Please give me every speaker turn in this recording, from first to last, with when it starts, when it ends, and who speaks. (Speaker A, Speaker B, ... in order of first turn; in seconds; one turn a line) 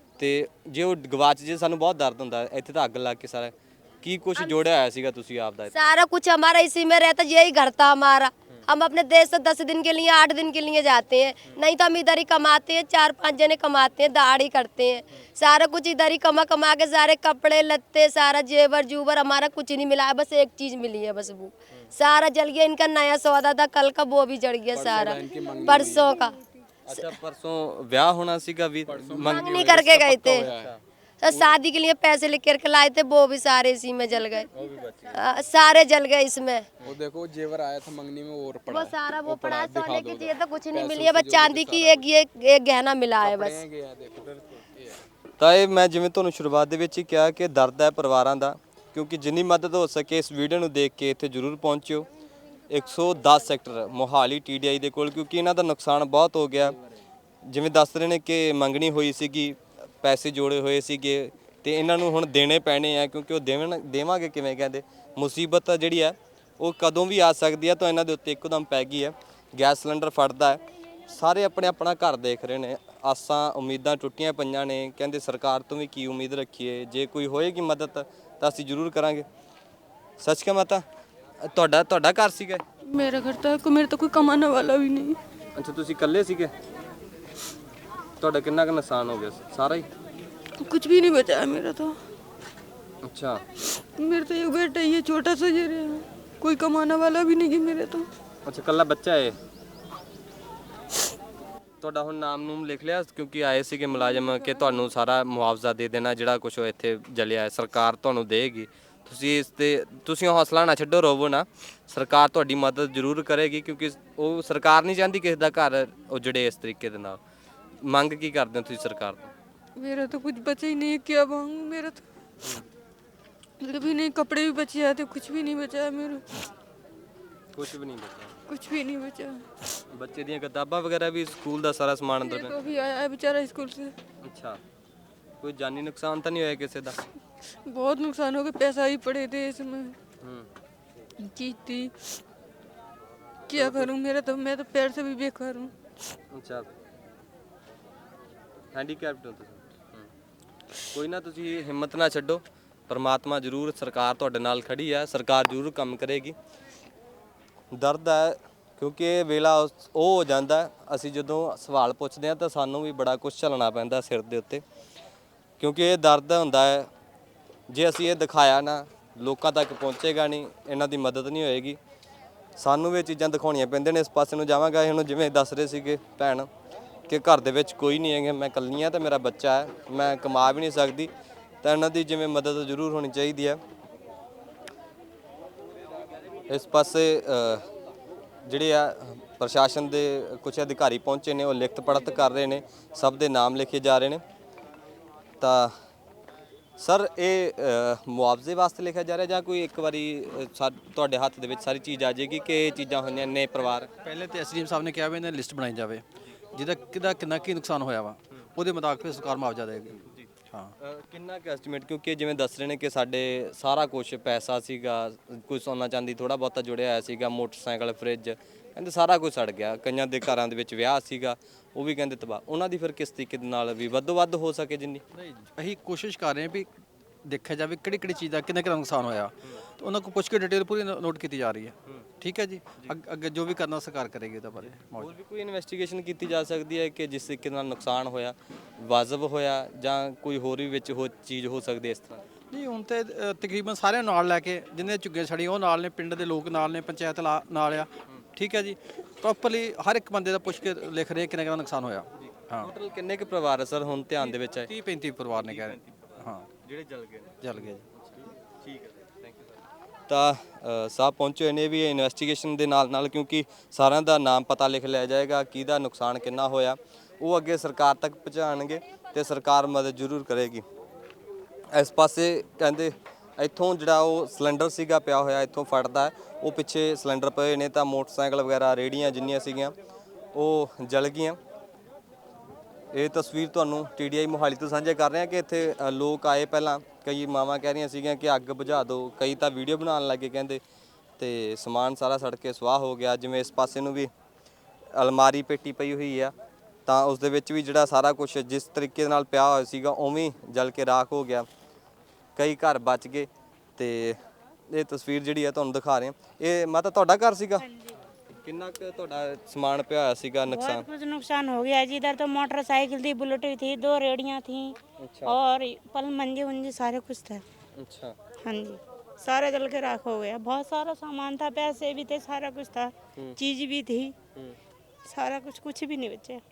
Speaker A: 0.2-5.9
Speaker B: 5.7-26.4
Speaker C: 24.7-26.1
Speaker A: 26.9-31.5
Speaker C: 28.9-29.7
Speaker B: 29.2-30.5
Speaker C: 30.4-30.7
Speaker B: 31.2-34.5
Speaker A: 34.5-35.2
Speaker B: 35.1-36.7
Speaker C: 36.8-42.0
Speaker B: 38.7-43.6
Speaker C: 43.2-45.0
Speaker A: 45.4-52.1
Speaker A: 52.7-56.8
Speaker A: 57.5-79.3
Speaker A: 80.2-80.8
Speaker A: 81.5-82.6
Speaker D: 82.9-85.2
Speaker A: 85.5-86.5
Speaker A: 88.2-89.9
Speaker D: 90.6-92.0
Speaker A: 93.0-93.4
Speaker D: 93.6-98.1
Speaker A: 98.5-99.4
Speaker A: 101.8-117.2
Speaker D: 104.2-104.7
Speaker A: 117.8-119.3
Speaker D: 119.8-122.0
Speaker D: 123.6-126.5
Speaker A: 127.5-128.4
Speaker D: 128.5-129.8
Speaker A: 129.9-132.6
Speaker D: 132.2-133.9
Speaker A: 134.2-134.6
Speaker A: 135.4-137.0
Speaker D: 137.7-140.0
Speaker A: 140.2-140.5
Speaker D: 141.2-142.2
Speaker D: 143.5-145.7
Speaker A: 143.5-143.9
Speaker A: 146.3-146.7
Speaker A: 148.7-150.1
Speaker A: 150.9-156.3
Speaker A: 157.7-164.6
Speaker A: 165.6-166.9
Speaker A: 167.7-171.8
Speaker A: 172.6-176.5
Speaker A: 177.1-181.1
Speaker A: 181.6-183.6
Speaker A: 186.5-187.7
Speaker A: 188.4-194.2
Speaker A: 195.4-195.7
Speaker A: 196.8-203.9
Speaker E: 204.0-210.7
Speaker A: 210.1-225.0
Speaker E: 225.3-226.7
Speaker E: 227.2-235.1
Speaker A: 235.0-242.2
Speaker E: 242.5-252.7
Speaker A: 252.2-254.7
Speaker E: 254.2-256.5
Speaker A: 255.3-259.5
Speaker E: 257.4-257.8
Speaker A: 260.1-270.6
Speaker A: 271.7-279.7
Speaker A: 280.3-281.4
Speaker A: 282.9-290.6
Speaker A: 291.2-294.1
Speaker A: 294.9-296.3
Speaker A: 296.9-301.5
Speaker A: 302.4-304.2
Speaker A: 304.7-307.6
Speaker F: 307.6-308.0
Speaker A: 308.4-310.9
Speaker F: 310.5-317.4
Speaker A: 315.0-315.4
Speaker A: 317.8-318.2
Speaker F: 318.4-324.2
Speaker F: 325.1-326.4